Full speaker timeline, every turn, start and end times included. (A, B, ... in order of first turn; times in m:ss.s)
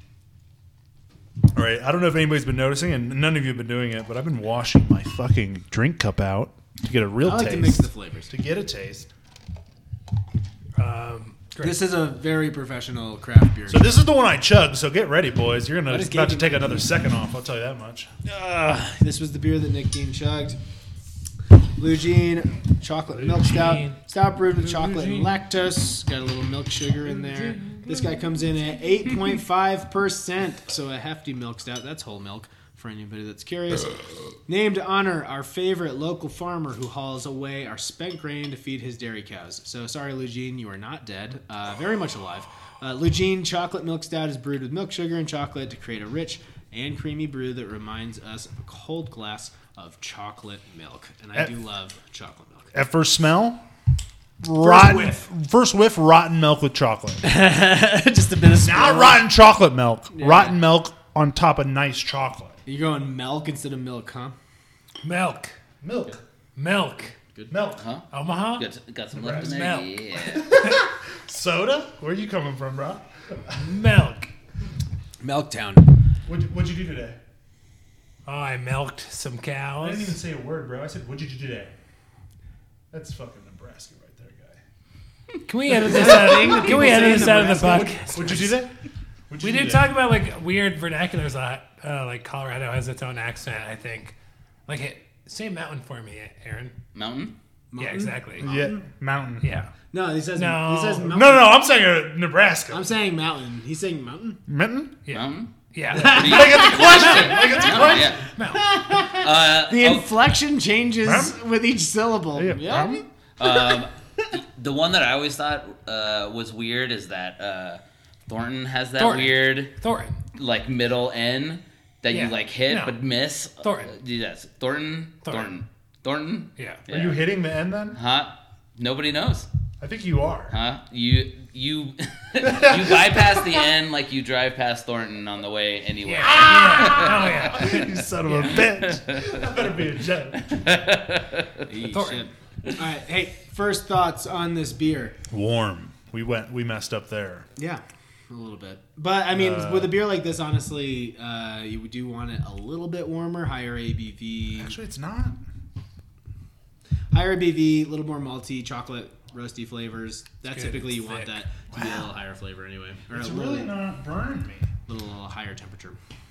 0:01.5-0:09.1 A
0:07.2-0:08.3 B
0:10.8-0:11.8 C
0:11.6-0:14.0 B
0:13.7-0:18.1 A
0:15.9-0:16.8 B
0:18.2-0:20.6 B
0:21.8-0:33.9 B
0:23.2-0:25.3 C
0:27.2-0:27.8 C
0:34.5-0:52.7 B
0:52.7-0:53.6 A
0:54.4-0:57.3 A
0:54.6-0:55.2 B
0:57.2-0:59.2 B
0:58.6-1:02.6 A
1:00.1-1:00.6 B
1:02.6-1:04.4 B
1:05.0-1:05.5 C
1:05.8-1:06.2 A
1:06.6-1:07.1 C
1:07.5-1:07.8 A
1:07.7-1:08.0 D
1:08.1-1:08.6 C
1:08.6-1:10.6 D
1:09.2-1:09.5 A
1:09.2-1:09.9 C
1:10.3-1:13.6 A
1:13.6-1:14.3 C
1:15.2-1:15.8 B
1:16.2-1:17.2 A
1:18.2-1:20.2 C
1:19.8-1:21.7 A
1:22.9-1:24.6 A
1:25.5-1:28.5 C
1:25.8-1:28.4 B
1:25.8-1:28.7 A
1:29.3-1:29.9 A
1:29.4-1:34.1 C
1:34.7-1:36.7 C
1:36.9-1:37.3 D
1:37.7-1:38.8 B
1:37.8-1:38.5 C
1:38.4-1:39.5 A
1:39.4-1:39.7 C
1:39.9-1:41.5 B
1:40.3-1:41.1 C
1:41.0-1:42.9 A
1:42.7-1:44.4 B
1:44.5-1:45.0 A
1:45.0-1:48.6 C
1:45.1-1:48.3 D
1:45.9-1:47.1 B
1:45.9-1:48.2 A
1:48.5-1:53.8 B
1:49.0-1:50.1 D
1:51.0-1:51.4 A
1:52.3-1:53.0 A
1:53.4-1:59.7 D
1:59.0-2:00.2 C
2:00.3-2:07.3 D
2:02.1-2:02.9 C
2:03.6-2:03.9 C
2:05.2-2:05.5 C
2:06.9-2:08.0 A
2:07.9-2:09.5 D
2:09.8-2:10.5 A
2:10.5-2:17.6 D
2:12.4-2:13.6 A
2:16.0-2:18.5 C
2:16.2-2:20.7 A
2:18.5-2:19.4 D
2:20.4-2:21.6 D
2:21.7-2:25.2 B
2:21.9-2:22.3 C
2:25.3-2:27.5 A
2:27.6-2:34.8 B
2:29.3-2:30.0 A
2:34.6-2:35.4 A
2:37.1-2:43.8 B
2:40.4-2:41.4 C
2:41.7-2:42.1 A
2:43.1-2:44.7 A
2:44.9-2:46.0 B